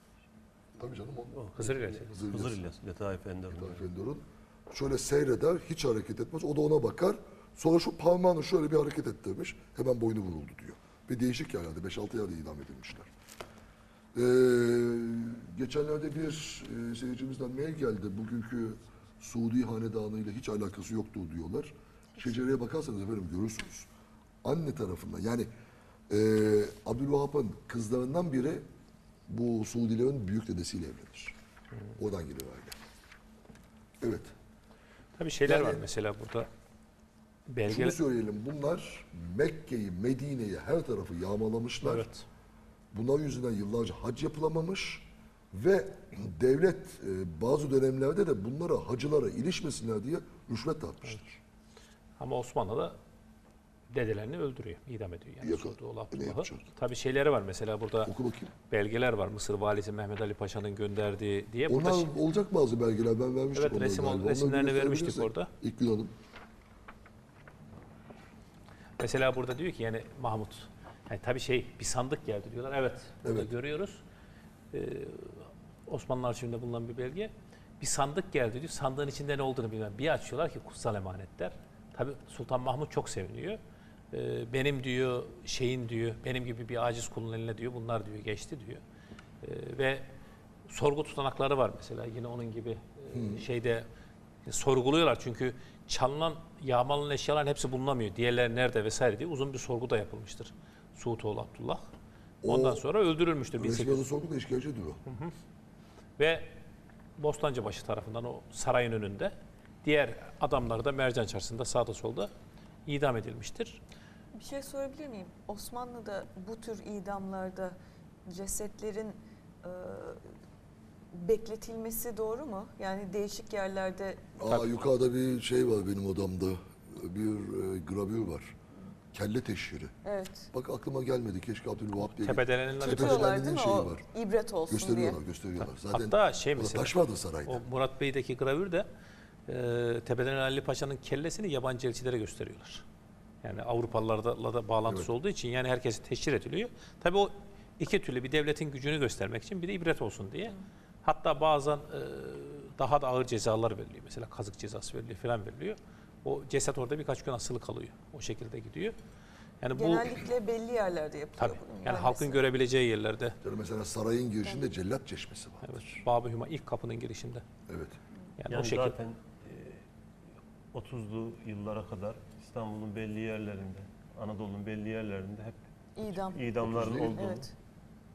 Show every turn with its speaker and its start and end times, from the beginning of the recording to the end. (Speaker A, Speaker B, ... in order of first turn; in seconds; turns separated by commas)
Speaker A: 0.8-1.3, Speaker B: 1.3-3.9, Speaker C: 1.6-2.2, Speaker A: 2.1-2.6, Speaker A: 3.5-13.1, Speaker A: 14.1-23.9, Speaker A: 24.4-25.5, Speaker A: 26.1-28.6, Speaker A: 29.3-31.3, Speaker A: 31.9-32.8, Speaker A: 34.0-34.3, Speaker C: 35.2-36.5, Speaker A: 35.5-35.8, Speaker C: 37.5-38.0, Speaker A: 37.7-42.1, Speaker C: 41.8-42.2, Speaker A: 42.9-51.4, Speaker C: 52.2-53.0, Speaker C: 53.9-58.1, Speaker A: 55.4-56.7, Speaker A: 58.0-58.5, Speaker C: 58.7-62.2, Speaker A: 61.7-66.1, Speaker C: 63.5-65.5, Speaker C: 69.0-74.0, Speaker A: 73.2-73.5, Speaker C: 74.7-83.6, Speaker C: 84.1-88.8, Speaker C: 89.4-90.1, Speaker C: 90.7-93.8, Speaker A: 93.1-93.4, Speaker C: 94.5-101.8, Speaker A: 102.4-102.8, Speaker C: 102.5-104.0, Speaker A: 103.6-105.0, Speaker C: 105.0-105.3, Speaker C: 106.2-106.5, Speaker C: 107.2-112.3, Speaker C: 112.8-113.8, Speaker D: 114.3-117.8, Speaker D: 118.3-120.2, Speaker D: 121.1-124.2, Speaker A: 124.4-128.5, Speaker A: 129.1-129.9, Speaker D: 130.0-130.5, Speaker A: 130.5-134.0, Speaker C: 132.0-133.4, Speaker D: 132.8-135.2, Speaker A: 134.7-137.6, Speaker C: 135.6-138.9, Speaker C: 139.5-142.8, Speaker C: 143.4-158.9, Speaker C: 159.6-160.2, Speaker D: 159.7-162.4, Speaker C: 161.4-163.4, Speaker A: 163.4-166.0, Speaker C: 165.6-167.4, Speaker A: 167.7-168.0, Speaker C: 168.4-168.9, Speaker B: 168.5-169.8, Speaker B: 170.7-177.5, Speaker D: 175.9-176.5, Speaker A: 176.6-177.2, Speaker D: 177.1-177.5